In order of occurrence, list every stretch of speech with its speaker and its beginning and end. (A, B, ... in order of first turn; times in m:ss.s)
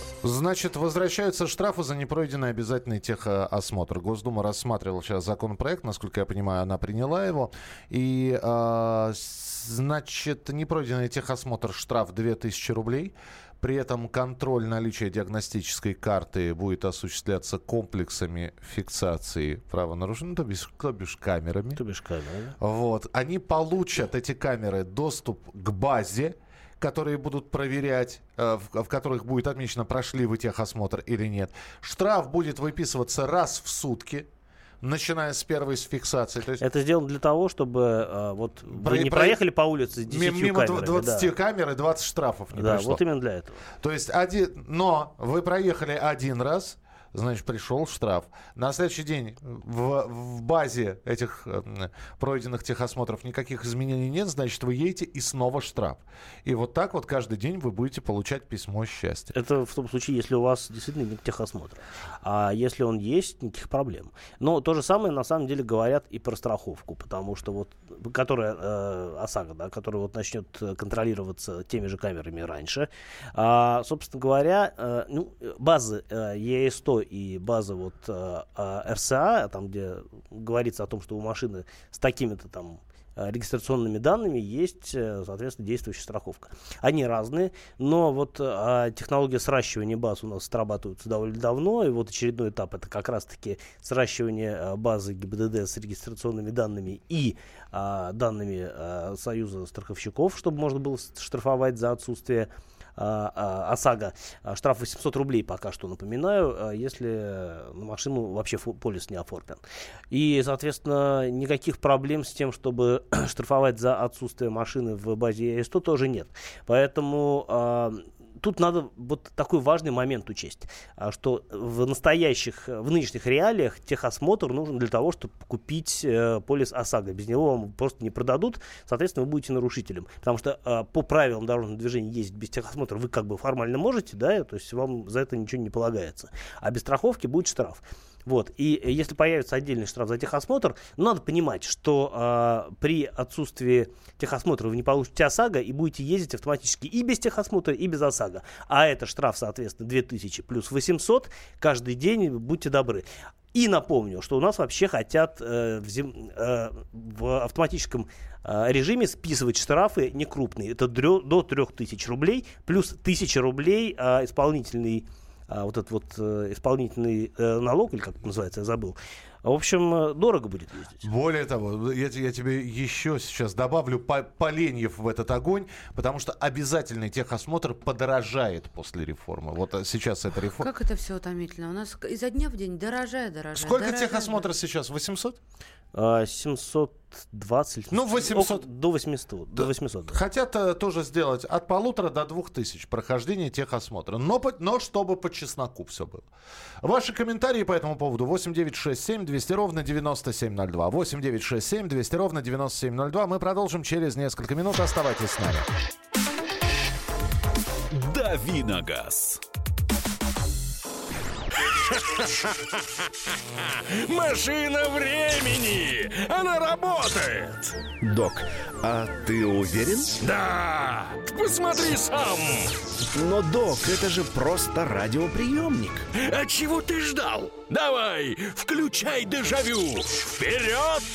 0:00.2-0:21.8 A
0:21.8-0:22.5 B
0:22.6-0:34.3 A
0:34.8-0:36.6 A
0:36.6-0:41.3 B
0:38.7-0:39.4 A
0:40.0-0:43.0 A
0:42.5-0:43.6 B
0:43.8-0:59.3 A
0:59.3-2:51.0 B
2:51.0-3:00.7 A
3:00.6-3:04.5 C
3:03.6-3:05.4 A
3:05.9-3:10.2 B
3:07.9-3:08.7 A
3:09.5-3:16.2 A
3:16.8-3:25.7 A
3:27.9-3:29.4 D
3:34.0-3:37.6 D
3:38.0-3:40.2 E
3:40.4-3:42.6 D
3:43.1-3:46.1 E
3:46.3-3:51.0 D